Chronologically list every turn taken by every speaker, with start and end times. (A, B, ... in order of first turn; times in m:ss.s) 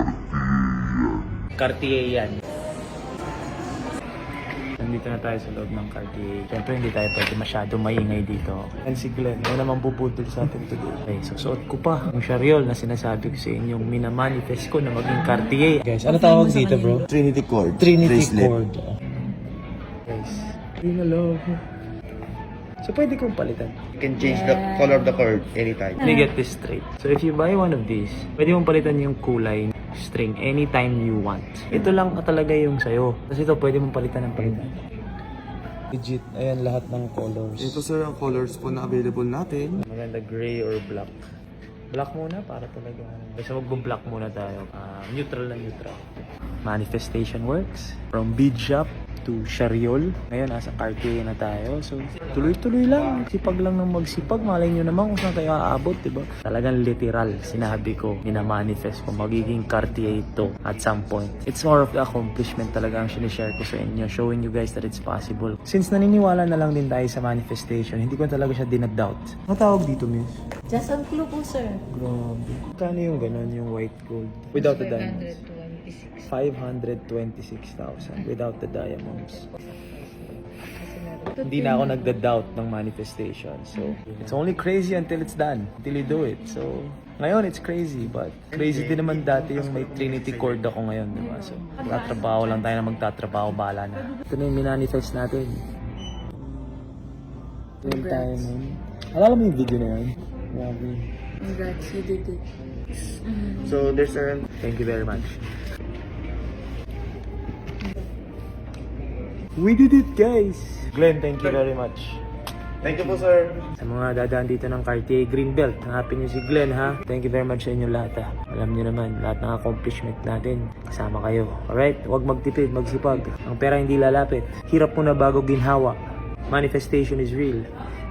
0:01.6-0:02.4 A
0:04.8-0:17.0 A
0:17.1-0:18.5 B
0:17.8-0:18.9 A
0:20.1-0:21.6 A
0:22.8-0:23.8 A
0:24.0-0:26.0 B
0:24.2-0:25.0 C
0:26.0-0:34.8 A
0:35.9-0:37.8 A
0:37.6-0:39.8 B
0:39.8-0:41.1 A
0:41.9-1:10.4 A
1:10.7-1:11.7 C
1:11.9-1:15.4 A
1:14.9-1:16.2 C
1:16.3-1:19.5 A
1:19.8-1:21.6 C
1:21.4-1:35.6 A
1:28.5-1:30.6 B
1:36.3-1:37.1 A
1:37.8-1:41.1 A
1:37.9-1:38.4 C
1:41.4-1:42.4 C
1:43.2-1:43.7 C
1:43.6-1:44.4 B
1:44.6-1:45.4 A
1:49.6-1:52.2 A
1:52.8-1:53.6 B
1:52.8-2:06.0 A
2:06.5-2:07.6 A